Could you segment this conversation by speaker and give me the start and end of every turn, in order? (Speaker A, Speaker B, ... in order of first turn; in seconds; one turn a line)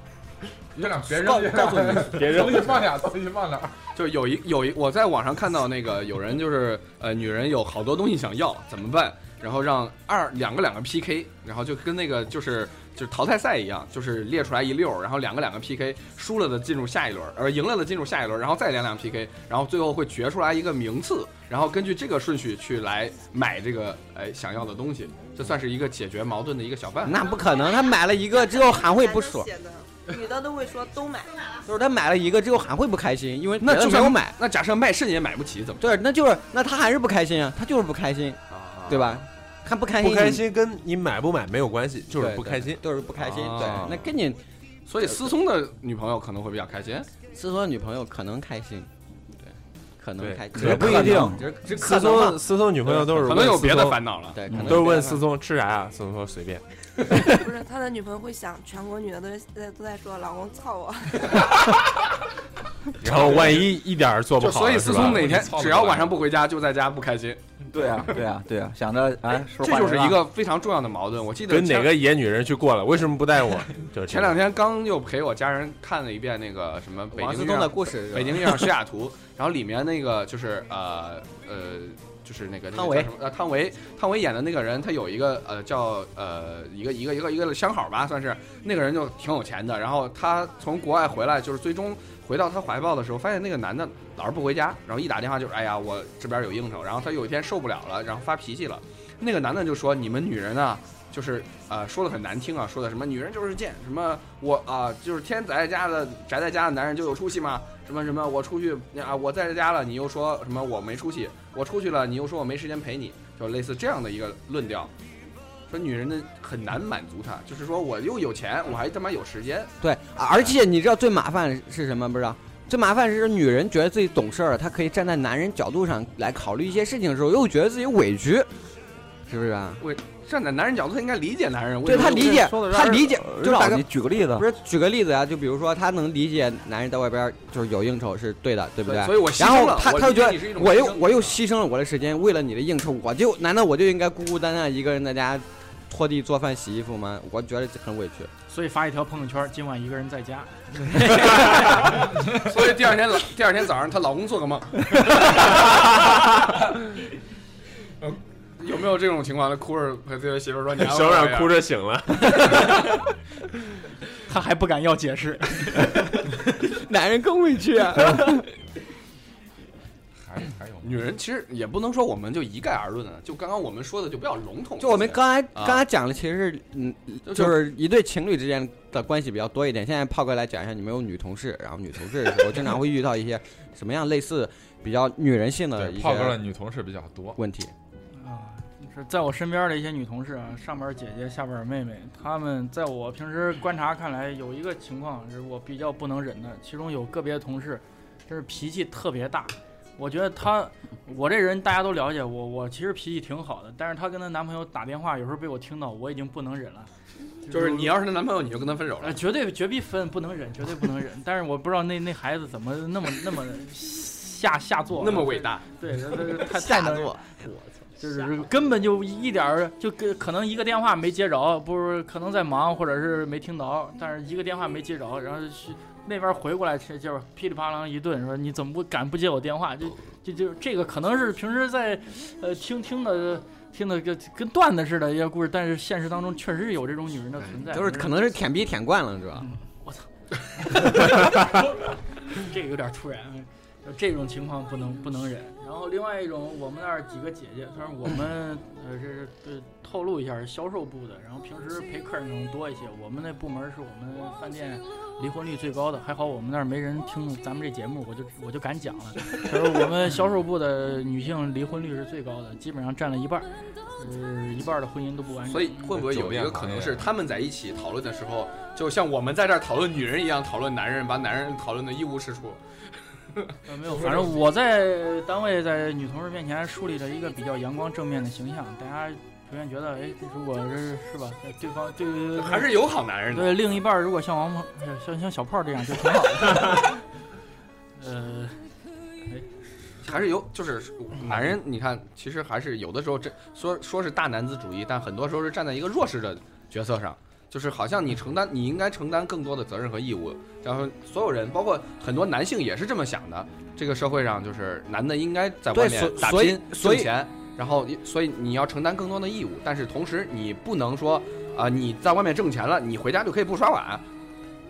Speaker A: 0.8-3.8
Speaker B: 1.1-2.4
Speaker C: 2.1-2.8
Speaker D: 4.0-27.2
Speaker B: 27.1-29.5
Speaker E: 27.4-31.5
Speaker B: 31.6-34.4
Speaker D: 33.6-36.0
Speaker B: 35.8-40.4
Speaker D: 38.5-39.2
Speaker C: 40.0-42.8
Speaker B: 42.1-44.4
Speaker D: 43.2-44.1
Speaker D: 44.9-47.1
Speaker B: 47.3-48.9
Speaker B: 50.0-53.4
Speaker C: 50.2-56.6
Speaker F: 50.5-51.5
Speaker D: 53.0-54.4
Speaker B: 54.3-55.2
Speaker E: 57.2-61.5
Speaker C: 63.0-65.3
Speaker D: 63.0-63.7
Speaker A: 63.3-63.6
Speaker D: 64.4-67.4
Speaker A: 64.8-66.2
Speaker F: 67.7-70.2
Speaker D: 67.9-68.2
Speaker D: 69.6-71.9
Speaker C: 71.5-74.4
Speaker D: 74.1-114.9
Speaker B: 77.1-78.7
Speaker B: 82.7-83.1
Speaker D: 115.7-119.7
Speaker B: 119.8-128.5
Speaker B: 129.3-129.8
Speaker D: 129.8-132.5
Speaker B: 131.8-148.3
Speaker F: 131.8-134.4
Speaker D: 138.8-141.4
Speaker G: 148.5-151.0
Speaker D: 151.0-155.3
Speaker C: 155.3-156.4
Speaker D: 158.6-161.6
Speaker C: 160.8-162.8
Speaker G: 164.3-166.0
Speaker B: 166.6-168.5
Speaker A: 170.2-171.1
Speaker D: 170.8-175.8
Speaker B: 174.8-186.4
Speaker D: 177.3-177.6
Speaker A: 185.7-187.4
Speaker B: 187.4-187.7
Speaker G: 188.2-206.9
Speaker G: 207.4-207.9
Speaker D: 207.5-209.2
Speaker G: 209.0-238.2
Speaker D: 215.0-215.6
Speaker B: 216.3-217.2
Speaker B: 237.6-239.4
Speaker G: 239.4-240.1
Speaker G: 240.6-241.6
Speaker G: 242.3-265.9
Speaker D: 265.5-272.6
Speaker A: 265.9-267.1
Speaker D: 273.4-274.4
Speaker G: 273.6-287.0
Speaker D: 282.4-283.7
Speaker G: 288.0-288.6
Speaker D: 290.1-314.1
Speaker B: 305.7-307.1